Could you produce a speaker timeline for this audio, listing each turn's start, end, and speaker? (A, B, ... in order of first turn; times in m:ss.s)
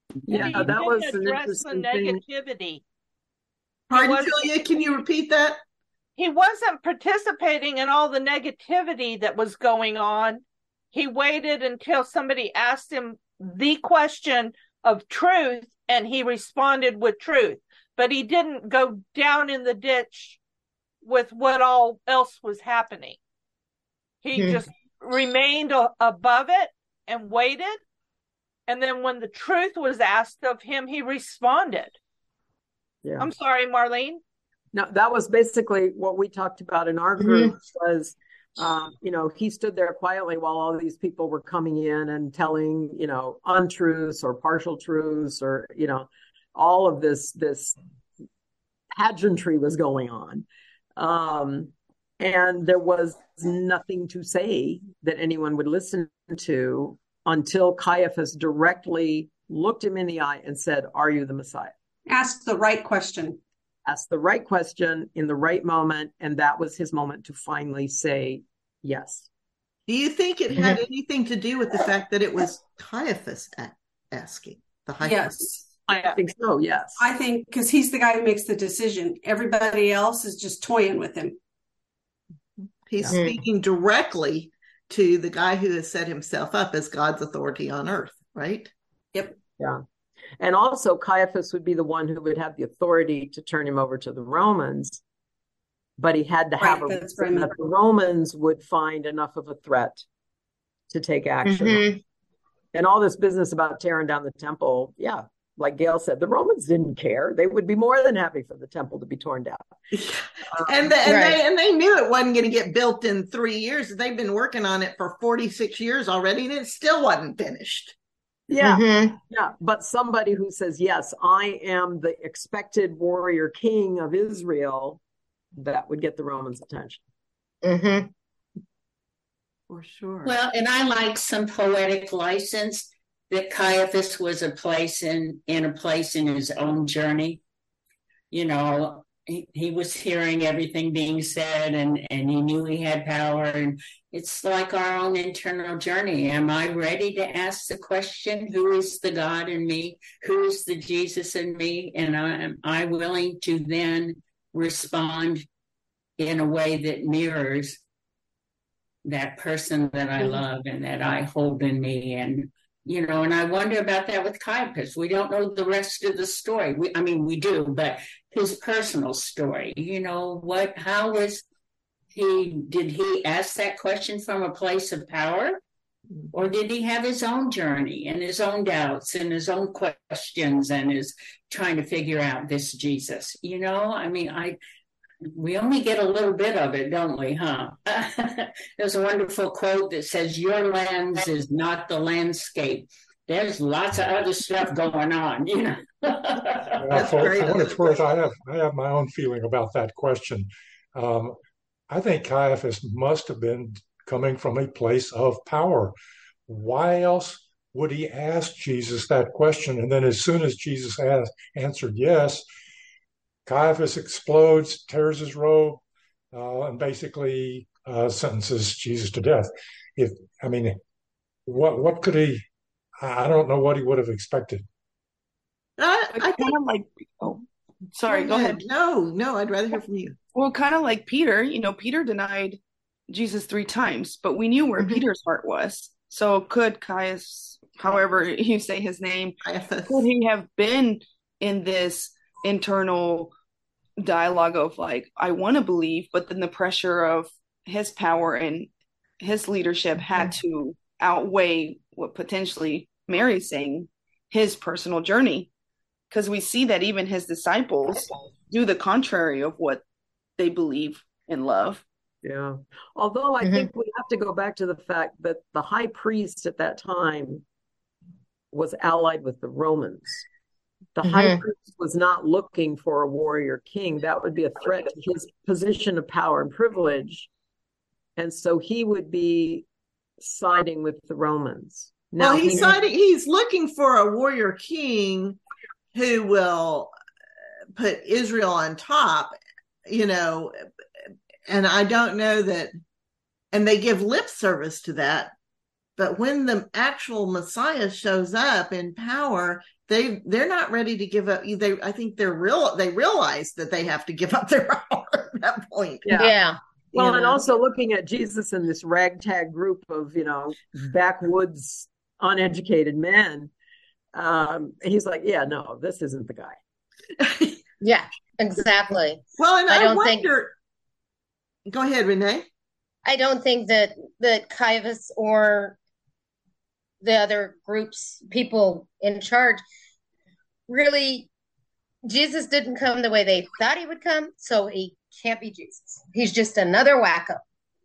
0:00.3-0:02.2 A
0:00.3-0:02.8 B
0:03.9-0:05.6 C
0:03.9-0:04.5 B
0:06.2-0:10.4 B
0:10.9-0:20.4 B
0:21.0-0:23.2 B
0:24.2-0:27.8 B
0:24.4-0:24.6 D
0:28.7-0:31.9 B
0:33.0-0:33.3 A
0:33.2-0:34.2 B
0:34.7-0:47.8 A
0:48.9-0:50.4 A
0:51.0-1:01.7 A
1:02.1-1:03.4 E
1:03.8-1:09.3 A
1:09.9-1:15.6 C
1:15.0-1:15.6 E
1:15.9-1:17.0 A
1:17.0-1:21.4 E
1:22.6-1:28.7 C
1:23.1-1:23.4 D
1:30.4-1:35.0 A
1:36.0-1:40.0 A
1:36.6-1:37.6 E
1:40.9-1:41.9 A
1:41.4-1:42.0 D
1:42.7-1:49.7 A
1:49.9-1:57.9 C
1:50.5-1:51.0 A
1:51.0-1:51.4 D
1:58.5-2:05.0 A
1:58.6-1:59.1 D
2:05.5-2:07.0 A
2:07.6-2:08.1 D
2:09.7-2:10.3 C
2:10.2-2:17.4 F
2:18.3-2:35.4 F
2:36.2-2:37.8 F
2:39.0-2:51.4 F
2:52.1-2:55.6 F
2:56.3-3:04.6 F
3:05.3-3:16.7 F
3:16.8-3:21.4 G
3:16.9-3:18.0 C
3:21.9-3:25.9 G
3:26.5-3:32.4 G
3:33.4-3:40.8 G
3:41.5-3:42.4 G
3:43.0-3:44.6 G
3:45.8-3:46.6 C
3:46.1-3:47.4 H
3:47.9-3:48.6 H
3:48.1-3:50.2 C
3:50.3-3:59.3 H
3:59.4-4:00.1 C
3:59.9-4:03.3 H
4:04.0-4:08.7 H
4:09.2-4:15.5 H
4:16.1-4:19.8 H
4:20.4-4:21.8 H
4:22.2-4:27.4 A
4:28.5-4:30.2 A
4:31.0-4:37.3 A
4:31.0-4:31.4 D
4:38.2-4:39.6 A
4:40.2-4:42.8 A
4:42.2-4:45.4 C
4:45.9-4:46.9 C
4:47.8-4:49.3 C
4:49.9-4:50.6 C
4:51.5-4:52.7 C
4:53.5-4:55.3 C
4:56.0-5:06.1 C
5:06.0-5:06.3 A
5:06.2-5:07.4 D
5:06.9-5:13.5 A
5:14.1-5:16.6 A
5:17.2-5:17.5 C
5:17.8-5:20.3 D
5:19.4-5:20.5 C
5:21.7-5:22.5 C
5:23.0-5:25.8 D
5:27.0-5:29.6 D
5:30.7-5:31.3 D
5:32.0-5:37.4 D